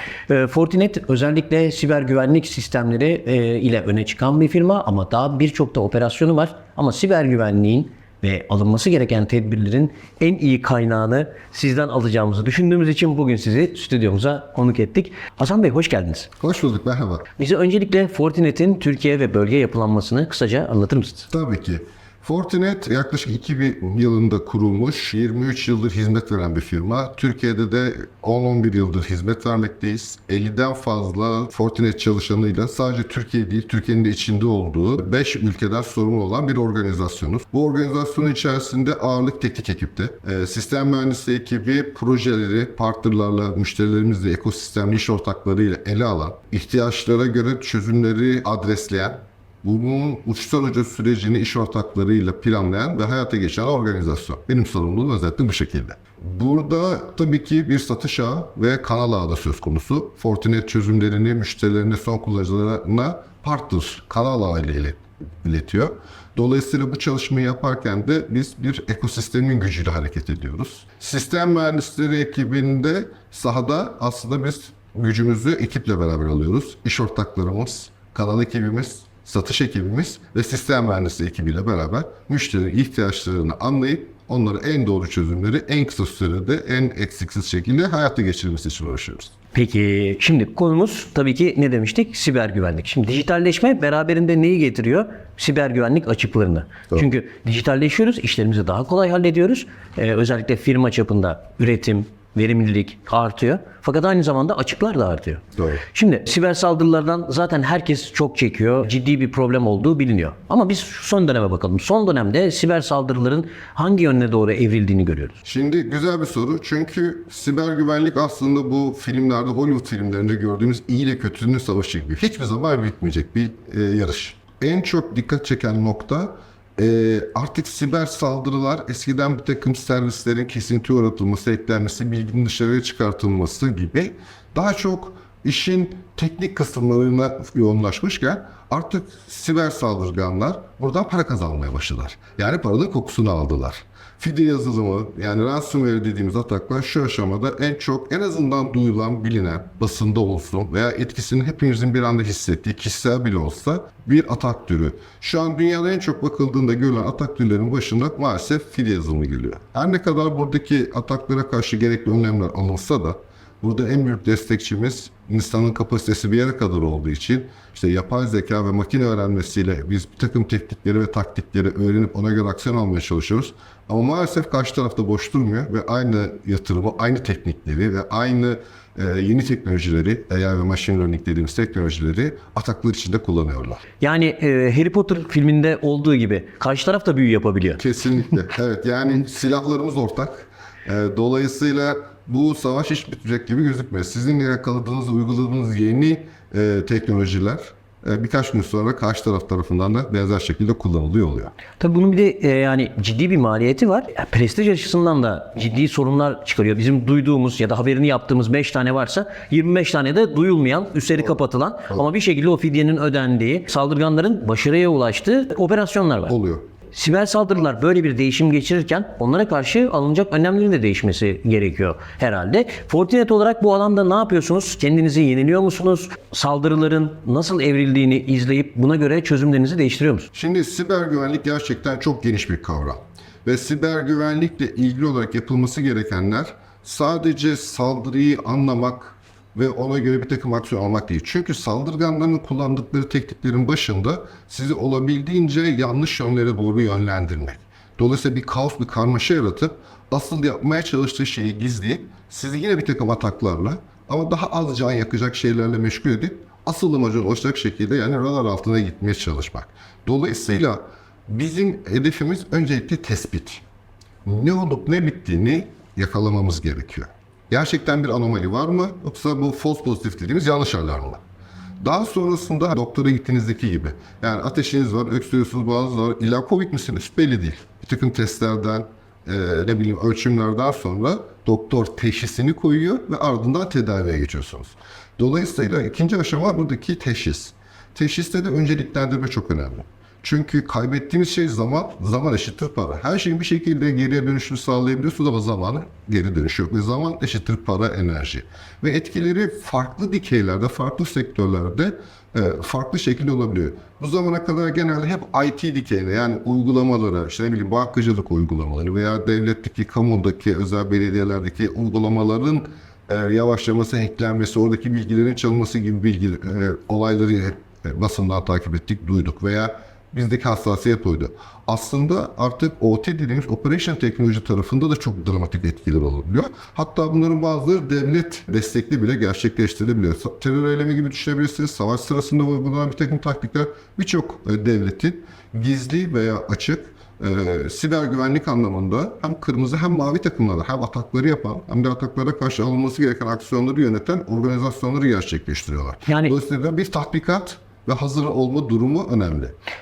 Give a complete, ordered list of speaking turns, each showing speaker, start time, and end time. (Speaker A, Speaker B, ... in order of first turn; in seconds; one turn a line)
Speaker A: 0.3-16.3
Speaker B: 16.4-17.3
Speaker A: 17.4-21.3
Speaker B: 21.3-89.3
Speaker A: 89.5-115.4
Speaker B: 105.6-105.8
Speaker B: 115.4-183.8
Speaker A: 184.0-187.8
Speaker B: 187.8-201.5
Speaker A: 201.8-216.3
Speaker B: 216.3-216.7
Speaker A: 216.9-230.3
Speaker B: 230.3-263.6
Speaker B: 264.2-271.2
Speaker B: 271.8-349.6
Speaker A: 346.1-346.3